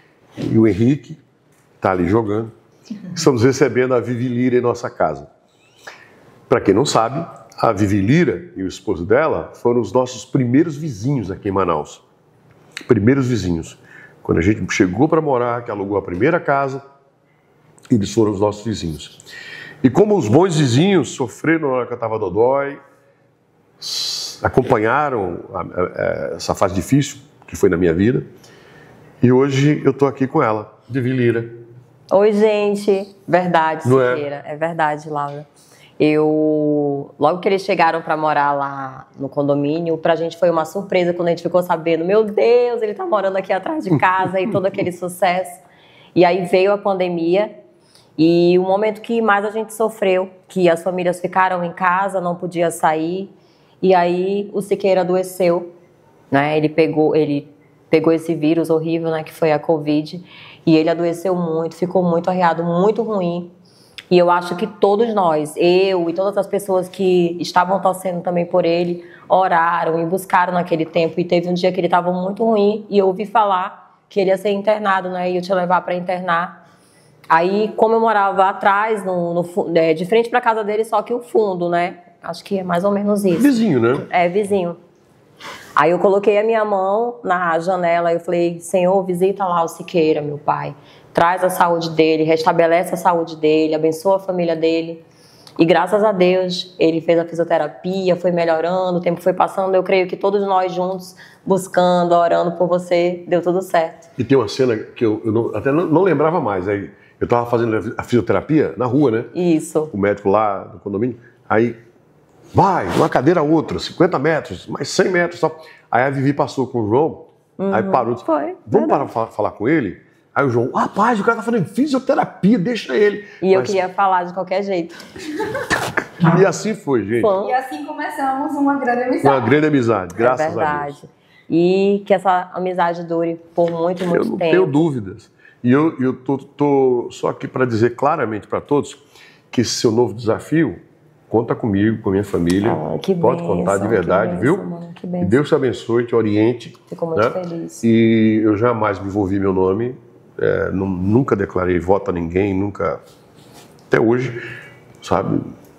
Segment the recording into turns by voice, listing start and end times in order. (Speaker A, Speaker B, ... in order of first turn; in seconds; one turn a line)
Speaker A: 0.4-1.2
Speaker A: 1.8-2.5
Speaker A: 3.1-5.3
Speaker A: 6.5-12.0
Speaker A: 12.9-16.8
Speaker A: 17.9-19.2
Speaker A: 19.8-22.8
Speaker A: 23.8-28.2
Speaker A: 29.2-31.5
Speaker B: 32.1-35.5
Speaker A: 33.8-34.2
Speaker B: 36.0-45.6
Speaker A: 44.2-44.5
Speaker B: 46.1-47.5
Speaker B: 48.2-53.3
Speaker B: 53.8-55.7
Speaker B: 56.3-63.5
Speaker B: 64.1-76.6
Speaker B: 77.3-84.8
Speaker A: 83.3-84.1
Speaker B: 85.8-95.0
Speaker B: 95.6-104.1
Speaker A: 104.2-109.3
Speaker B: 109.3-109.9
Speaker A: 109.9-111.8
Speaker A: 112.5-123.8
Speaker B: 117.6-119.1
Speaker B: 123.4-125.0
Speaker A: 126.2-127.3
Speaker B: 127.2-127.6
Speaker C: 127.4-129.6
Speaker A: 129.2-131.0
Speaker B: 130.2-134.8
Speaker A: 134.1-144.7
Speaker B: 142.6-145.4
Speaker A: 145.2-153.0
Speaker B: 146.9-147.8
Speaker A: 153.9-154.4
Speaker A: 155.0-155.5